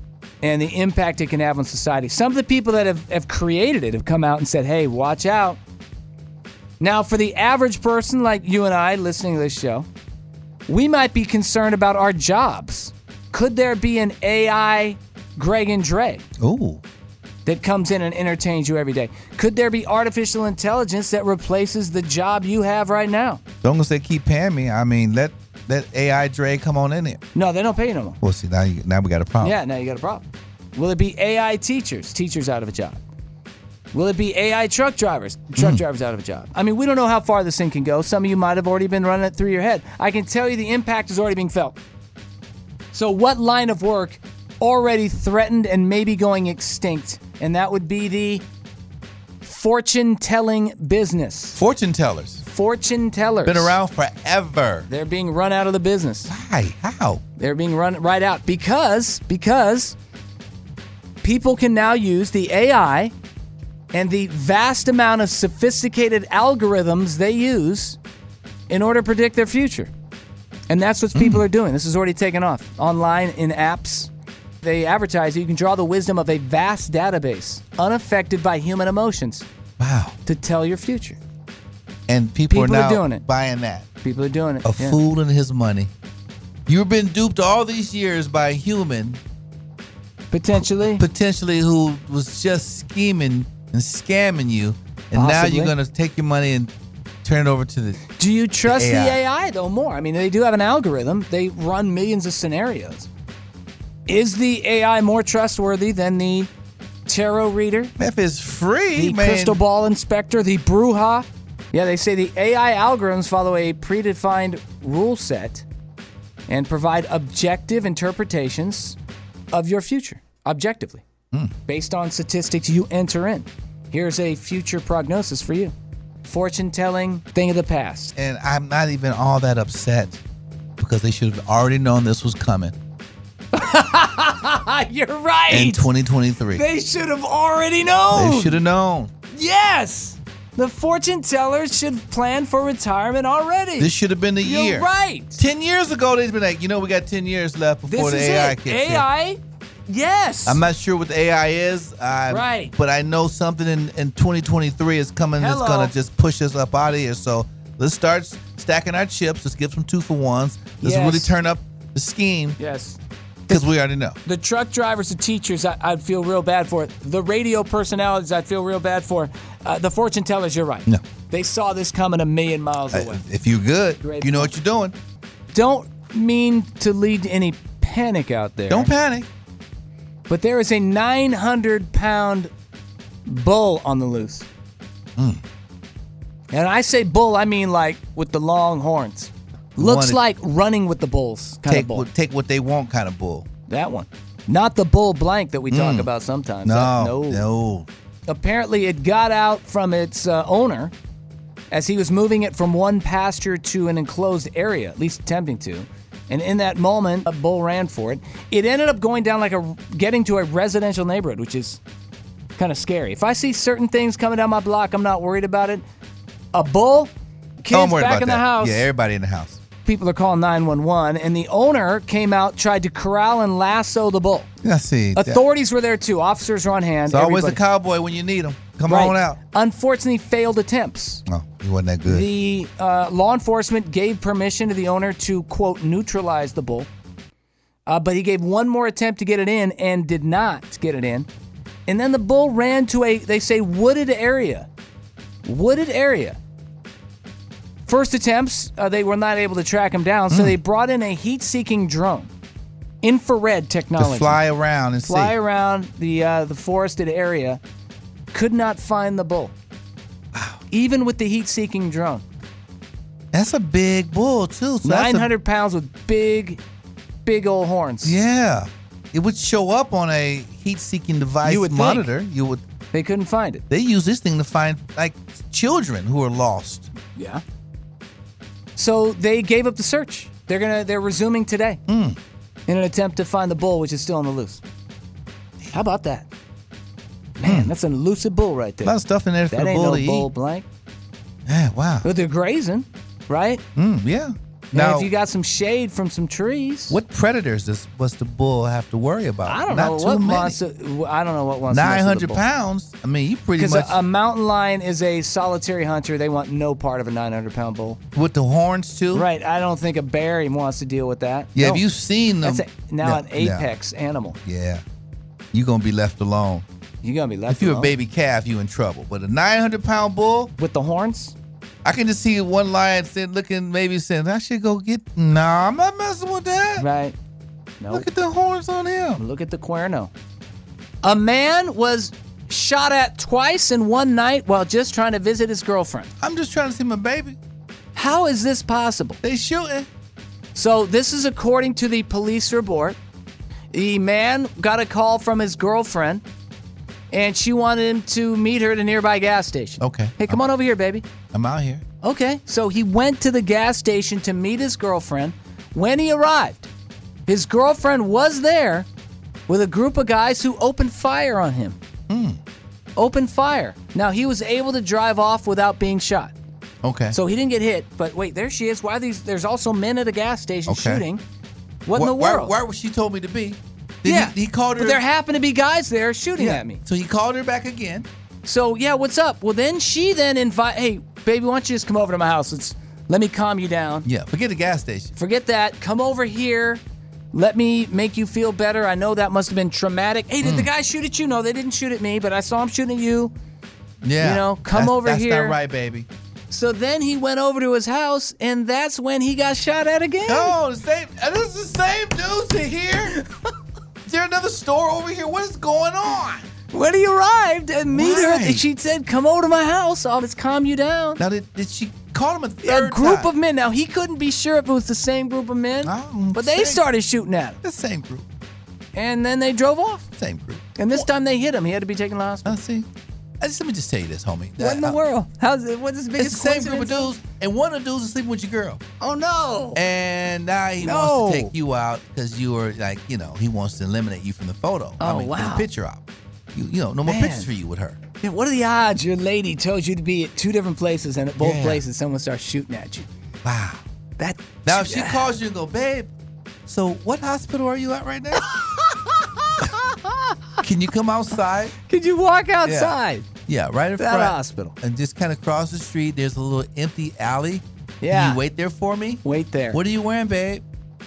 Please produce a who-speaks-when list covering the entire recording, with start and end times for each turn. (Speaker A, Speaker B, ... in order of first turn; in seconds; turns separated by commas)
Speaker A: 0.4-5.6, Speaker A: 6.8-9.9, Speaker A: 10.7-16.2, Speaker B: 16.4-16.8, Speaker A: 17.4-23.4, Speaker B: 23.6-27.2, Speaker A: 27.3-28.2, Speaker B: 28.2-29.6, Speaker A: 29.4-33.0, Speaker A: 33.9-41.8, Speaker B: 35.5-35.8, Speaker A: 42.9-48.5, Speaker A: 49.4-51.6, Speaker B: 51.5-52.4, Speaker A: 52.4-53.8, Speaker B: 53.4-54.9, Speaker A: 54.9-56.3, Speaker B: 56.3-57.2, Speaker A: 57.4-60.0, Speaker A: 61.2-63.1, Speaker A: 63.9-68.0, Speaker A: 68.7-69.9, Speaker A: 70.7-74.1, Speaker B: 71.1-71.4, Speaker A: 74.6-79.5, Speaker B: 79.8-80.2, Speaker A: 80.2-81.2, Speaker B: 82.1-83.8, Speaker A: 82.5-83.2, Speaker A: 84.0-85.0, Speaker B: 84.6-85.9, Speaker B: 86.7-89.2, Speaker A: 90.3-91.0, Speaker B: 90.8-96.7, Speaker A: 95.1-95.7, Speaker B: 97.2-98.0, Speaker A: 98.1-103.1, Speaker B: 98.7-99.2, Speaker A: 104.1-106.5, Speaker A: 107.1-107.9, Speaker B: 108.0-109.6, Speaker A: 108.9-115.7, Speaker A: 116.5-119.0, Speaker A: 119.5-121.0, Speaker A: 121.7-128.1, Speaker B: 128.2-130.2, Speaker B: 130.8-132.7, Speaker A: 133.5-135.9, Speaker B: 135.5-136.6, Speaker A: 136.5-138.6, Speaker B: 138.1-139.1, Speaker A: 139.3-145.4, Speaker B: 143.8-149.1, Speaker A: 147.8-150.6, Speaker B: 150.4-162.6, Speaker A: 152.3-152.7, Speaker A: 155.4-155.9, Speaker A: 160.8-161.3, Speaker A: 162.6-163.0, Speaker B: 163.5-164.2, Speaker A: 164.2-173.2, Speaker B: 172.9-174.9, Speaker A: 174.0-174.5, Speaker A: 175.5-178.9, Speaker B: 178.7-179.3, Speaker A: 180.3-182.5, Speaker A: 183.2-184.5, Speaker A: 186.5-192.1, Speaker B: 189.8-190.2, Speaker B: 191.6-193.5, Speaker A: 193.7-197.4, Speaker B: 195.7-196.1, Speaker B: 196.6-197.9, Speaker A: 198.3-200.9, Speaker A: 201.7-211.8, Speaker A: 212.6-215.8, Speaker A: 216.5-218.9, Speaker B: 217.7-219.6, Speaker A: 219.8-224.5, Speaker B: 224.6-225.4, Speaker A: 225.1-227.6, Speaker B: 227.1-229.4, Speaker A: 228.9-231.2, Speaker B: 231.3-232.3, Speaker A: 232.0-236.9, Speaker A: 237.9-241.3, Speaker A: 241.9-244.7, Speaker A: 245.4-246.4, Speaker A: 247.8-252.3, Speaker B: 250.3-250.6, Speaker A: 253.0-254.4, Speaker B: 254.0-255.3, Speaker A: 255.1-257.6, Speaker A: 258.3-259.5, Speaker B: 260.3-260.6, Speaker A: 260.7-262.2, Speaker B: 263.3-265.3, Speaker A: 264.8-266.6, Speaker A: 267.2-268.2, Speaker B: 268.0-272.6, Speaker A: 271.4-272.0, Speaker A: 272.9-273.6, Speaker B: 273.7-276.9, Speaker A: 277.1-277.4, Speaker A: 278.8-281.8, Speaker B: 281.9-282.2, Speaker A: 282.7-284.6, Speaker A: 285.7-286.3, Speaker A: 287.4-289.0, Speaker B: 287.4-287.7, Speaker B: 288.8-290.3, Speaker A: 289.5-290.6, Speaker B: 291.4-292.1, Speaker A: 292.0-293.6, Speaker B: 293.8-295.1, Speaker A: 294.7-297.0, Speaker B: 296.9-300.6, Speaker A: 299.4-302.4, Speaker B: 301.7-304.0, Speaker A: 303.6-308.0, Speaker B: 308.1-309.3, Speaker A: 309.1-311.8, Speaker B: 311.6-313.7, Speaker A: 312.4-314.4, Speaker B: 314.4-314.8, Speaker B: 315.5-316.6, Speaker A: 317.0-317.9, Speaker B: 317.5-320.5, Speaker A: 320.6-321.3, Speaker B: 321.8-326.8, Speaker A: 326.8-327.1, Speaker A: 327.8-328.1, Speaker B: 327.9-329.2, Speaker A: 329.2-330.1, Speaker A: 331.0-336.1, Speaker B: 336.2-337.4, Speaker A: 337.9-339.2, Speaker B: 339.2-339.9, Speaker A: 340.5-343.0, Speaker A: 343.7-346.2, Speaker A: 347.1-351.1, Speaker B: 349.8-350.4, Speaker B: 351.3-351.8, Speaker A: 352.0-356.7, Speaker A: 357.3-358.9, Speaker A: 359.5-361.8, Speaker B: 362.1-362.4, Speaker A: 363.0-366.3, Speaker B: 366.8-367.1, Speaker A: 367.1-371.2, Speaker B: 370.6-371.0, Speaker A: 371.9-372.5, Speaker B: 371.9-375.0, Speaker A: 374.0-376.8, Speaker B: 376.4-378.1, Speaker A: 378.4-384.1, Speaker B: 384.0-385.1, Speaker A: 385.1-386.8, Speaker A: 387.3-393.3, Speaker B: 390.4-390.7, Speaker B: 394.0-396.1, Speaker A: 394.2-395.6, Speaker A: 396.5-400.5, Speaker B: 400.2-403.2, Speaker B: 404.0-406.4, Speaker A: 406.7-411.2, Speaker B: 407.9-408.6, Speaker B: 411.2-413.3, Speaker A: 412.6-417.6, Speaker B: 415.8-416.8, Speaker B: 417.6-418.2, Speaker A: 418.9-420.0, Speaker B: 420.2-421.1, Speaker A: 420.8-422.6, Speaker B: 422.4-422.9, Speaker B: 423.4-425.0, Speaker A: 424.6-427.1, Speaker B: 426.2-428.8, Speaker A: 429.0-429.8, Speaker B: 429.7-438.0, Speaker A: 430.8-431.5, Speaker A: 435.0-435.6, Speaker A: 437.0-437.5, Speaker A: 438.2-443.1, Speaker B: 441.4-441.8, Speaker B: 443.4-443.8, Speaker A: 444.2-445.3, Speaker B: 444.6-446.1, Speaker B: 446.6-448.5, Speaker A: 448.3-450.6, Speaker B: 450.6-451.7, Speaker A: 451.8-453.3, Speaker B: 452.6-460.6, Speaker A: 454.0-454.7, Speaker A: 458.0-458.4, Speaker A: 459.2-459.8